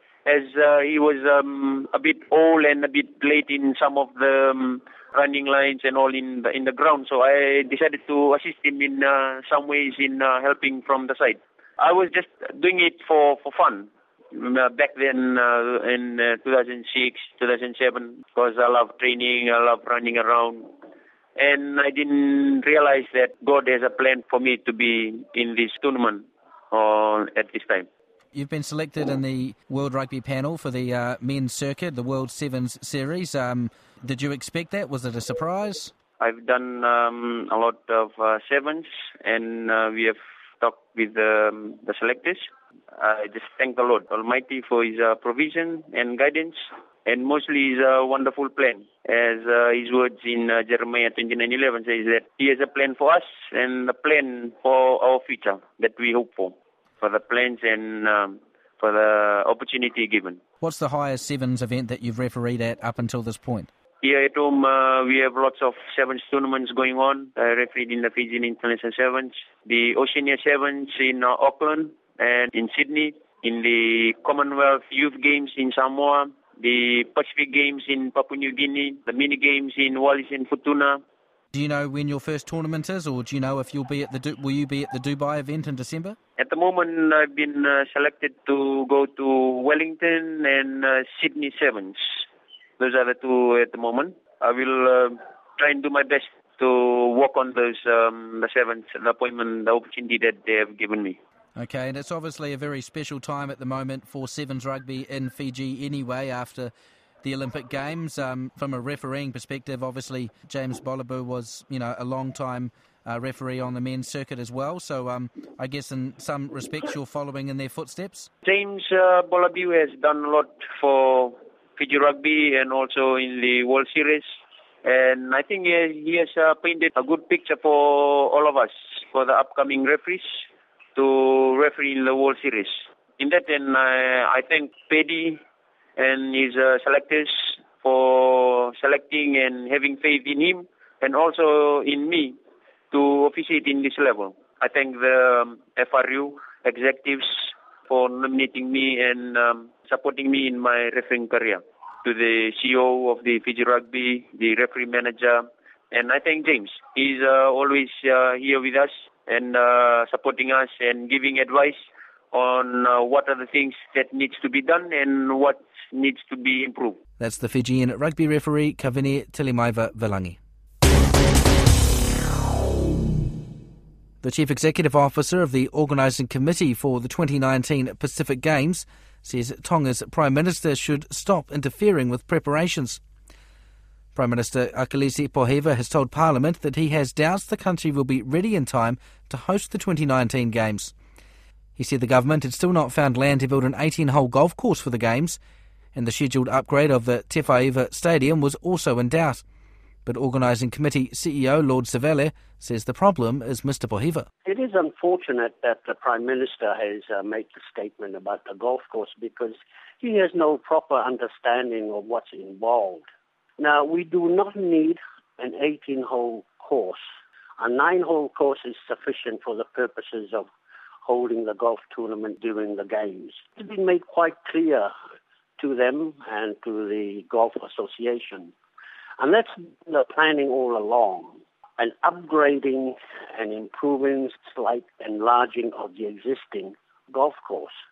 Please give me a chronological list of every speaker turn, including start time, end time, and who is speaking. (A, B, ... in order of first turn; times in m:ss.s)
0:00.2-0:20.7 A
0:21.4-0:27.8 A
0:28.3-0:35.9 B
0:36.2-1:00.4 A
1:00.6-1:03.7 B
1:04.0-1:21.0 A
1:21.5-1:26.2 B
1:26.4-1:32.0 A
1:32.8-1:41.2 A
1:41.6-1:46.7 B
1:47.2-1:58.3 B
1:58.4-2:04.2 A
2:04.8-2:10.4 A
2:11.0-2:15.4 A
2:16.0-2:22.4 A
2:22.9-2:47.0 A
2:47.2-2:50.4 B
2:54.2-3:03.0 B
3:04.1-3:10.9 B
3:11.8-3:15.4 B
3:15.9-3:19.4 B
3:20.0-3:24.3 B
3:24.4-3:33.0 C
3:33.6-3:37.0 C
3:37.6-3:40.5 C
3:41.0-3:44.9 C
3:45.6-3:48.5 C
3:49.2-3:57.7 C